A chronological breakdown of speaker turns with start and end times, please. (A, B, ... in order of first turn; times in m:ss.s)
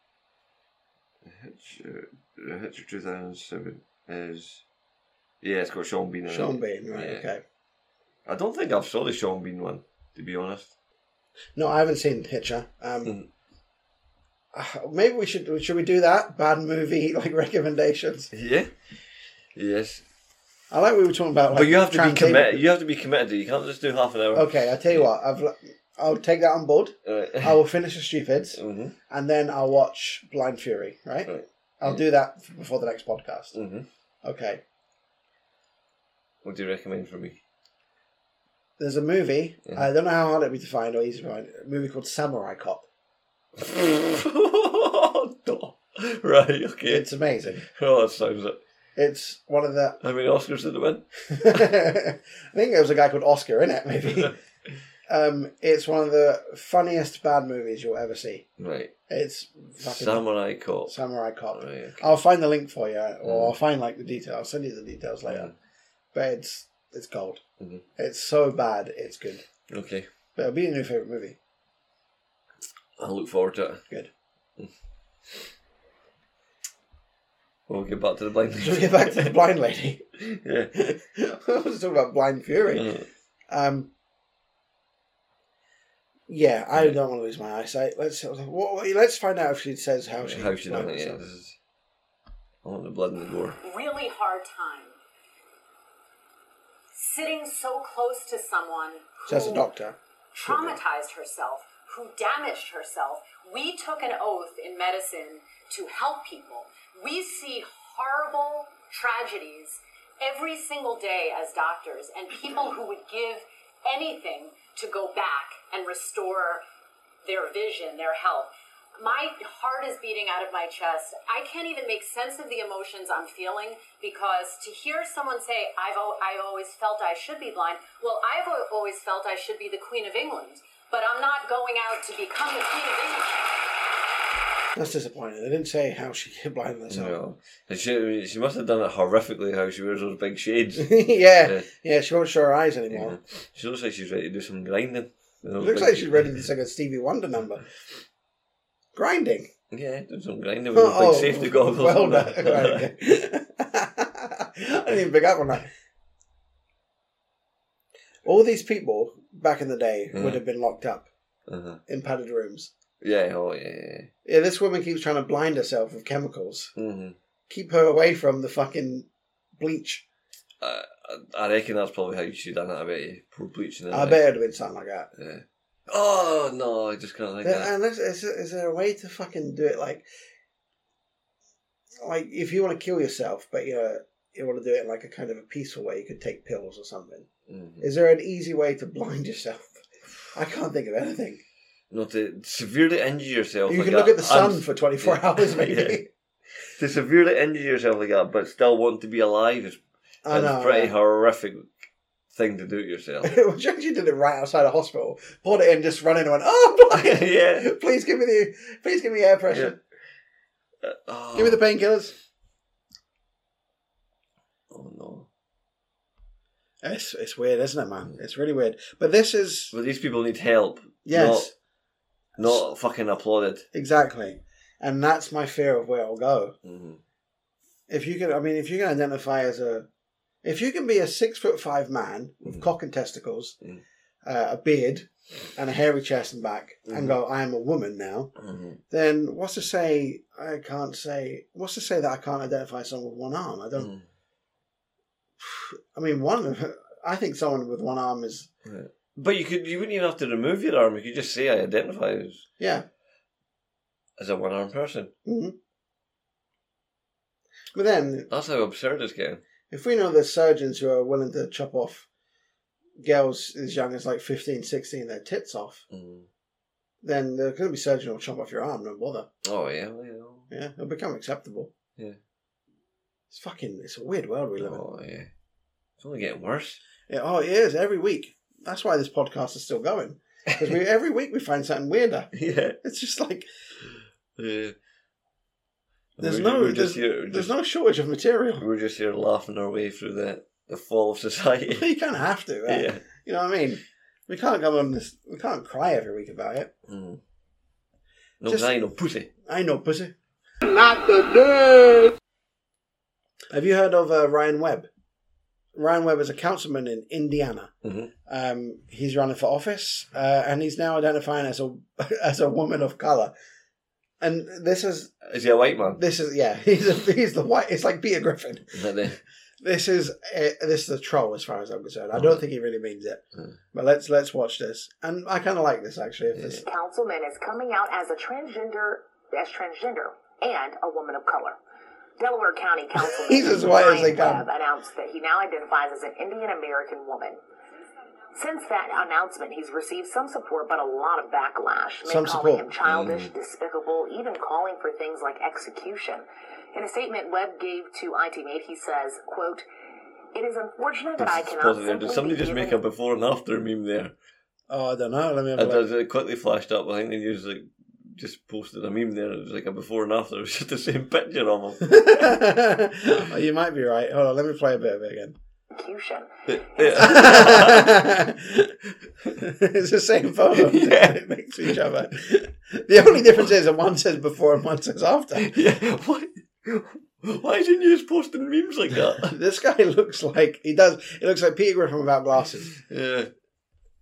0:01.2-0:04.6 A
0:05.4-0:07.3 A
0:06.3-0:07.4 B
0:08.2-0:10.7 A
0:11.6-0:13.1 B
0:13.0-0:13.3 A
0:14.5-0:18.3 B
0:18.3-0:18.7 A
0:19.5-0:20.0 A
0:20.7-0:22.6 B
0:21.5-0:25.0 A
0:24.3-0:33.6 B
0:27.0-0:27.6 A
0:28.5-0:29.0 A
0:31.2-0:32.0 A
0:33.5-0:33.9 A
0:34.2-0:34.6 B
0:36.4-0:37.4 A
0:38.8-0:42.8 B
0:43.6-0:48.6 A
0:46.8-0:47.6 B
0:49.0-0:50.0 B
0:50.0-0:51.0 A
0:51.3-0:54.3 B
0:55.1-0:58.4 B
0:58.6-0:58.9 A
0:59.1-1:00.2 B
0:59.8-1:00.9 A
1:00.8-1:05.5 B
1:01.5-1:02.2 A
1:03.2-1:03.5 A
1:05.3-1:05.5 A
1:06.1-1:07.4 B
1:07.6-1:07.8 A
1:08.0-1:09.4 B
1:09.7-1:10.1 A
1:10.4-1:11.4 B
1:13.0-1:13.8 A
1:17.7-1:19.3 A
1:18.6-1:20.0 B
1:20.2-1:20.7 A
1:20.8-1:22.9 B
1:22.7-1:23.0 A
1:23.5-1:23.9 B
1:26.3-1:31.2 B
1:30.2-1:31.6 A
1:32.6-1:33.6 A
1:33.6-1:35.0 C
1:36.9-1:39.6 C
1:39.2-1:40.7 B
1:40.3-1:56.6 C
1:40.5-1:40.8 A
1:57.2-2:13.5 C
2:14.7-2:17.2 B
2:16.9-2:21.7 A
2:20.8-2:23.2 B
2:22.9-2:26.4 A
2:25.6-2:27.6 B
2:28.9-2:29.5 B
2:29.7-2:32.9 A
2:30.7-2:35.7 B
2:38.2-2:41.1 B
2:40.1-2:40.4 A
2:41.5-2:41.8 A
2:41.9-2:42.7 B
2:43.0-2:44.1 A
2:44.2-2:46.7 B
2:46.8-2:47.2 A
2:47.5-2:49.1 B
2:49.6-2:50.0 B
2:50.6-2:54.2 A
2:53.9-2:55.1 B
2:55.2-2:57.7 A
2:57.4-3:00.0 B
3:02.0-3:07.3 B
3:07.5-3:07.9 A
3:07.8-3:09.8 B
3:10.3-3:11.4 B
3:11.9-3:16.0 A
3:13.7-3:16.1 B
3:16.8-3:21.7 A
3:20.2-3:20.9 B
3:22.3-3:23.3 A
3:23.2-3:29.8 B
3:26.9-3:27.7 A
3:29.5-3:29.8 A
3:30.8-3:31.6 A
3:31.3-3:32.2 B
3:34.7-3:35.3 A
3:36.8-3:39.7 B
3:39.7-3:41.5 A
3:41.0-3:41.5 B
3:42.4-3:43.6 A
3:43.7-3:46.6 B
3:46.6-3:47.0 A
3:47.9-3:49.9 B
3:50.4-3:53.6 B
3:54.2-3:58.3 B
3:56.9-3:57.2 A
3:58.4-3:58.8 A
3:58.9-4:03.9 B
4:03.8-4:04.1 A
4:05.4-4:08.5 B
4:08.6-4:12.4 A
4:12.6-4:12.8 B
4:14.2-4:15.1 A
4:15.2-4:15.5 B
4:17.7-4:18.3 B
4:18.3-4:19.4 A
4:19.7-4:22.1 B
4:23.0-4:25.8 B
4:25.9-4:26.3 A
4:27.0-4:29.3 B
4:29.4-4:30.5 A
4:30.5-4:31.7 B
4:33.3-4:34.8 B
4:34.6-4:35.3 A
4:36.0-4:36.8 A
4:37.1-4:42.3 B
4:42.3-4:42.8 A
4:42.8-4:43.5 B
4:44.4-4:44.8 A
4:46.2-4:47.5 A
4:46.2-4:48.6 B
4:48.6-4:51.8 A
4:51.7-4:56.7 B
4:52.7-4:53.0 A
4:56.9-4:57.2 A
4:58.4-4:59.3 A
4:58.5-4:58.8 B
4:59.4-5:00.1 B
5:03.5-5:04.9 B
5:05.7-5:07.7 B
5:07.8-5:08.1 A
5:08.3-5:13.3 B
5:14.2-5:15.1 B
5:15.2-5:16.0 A
5:15.9-5:18.7 B
5:18.7-5:19.2 A
5:19.6-5:23.2 B
5:22.1-5:22.4 A
5:23.7-5:26.6 B
5:26.3-5:26.6 A
5:26.6-5:31.6 D
5:32.2-5:37.4 D
5:33.1-5:34.4 B
5:38.3-5:49.6 D
5:42.0-5:42.7 B
5:42.8-5:43.3 A
5:50.3-5:52.8 D
5:51.2-5:54.1 A
5:54.7-5:55.8 B
5:55.6-6:02.3 A
6:01.9-6:05.4 B
6:05.8-6:07.0 D
6:06.5-6:08.0 A
6:06.9-6:08.7 B
6:09.4-6:15.5 B
6:10.5-6:11.8 A
6:13.1-6:13.5 A
6:15.4-6:19.3 A
6:19.2-6:22.8 B
6:22.7-6:23.3 A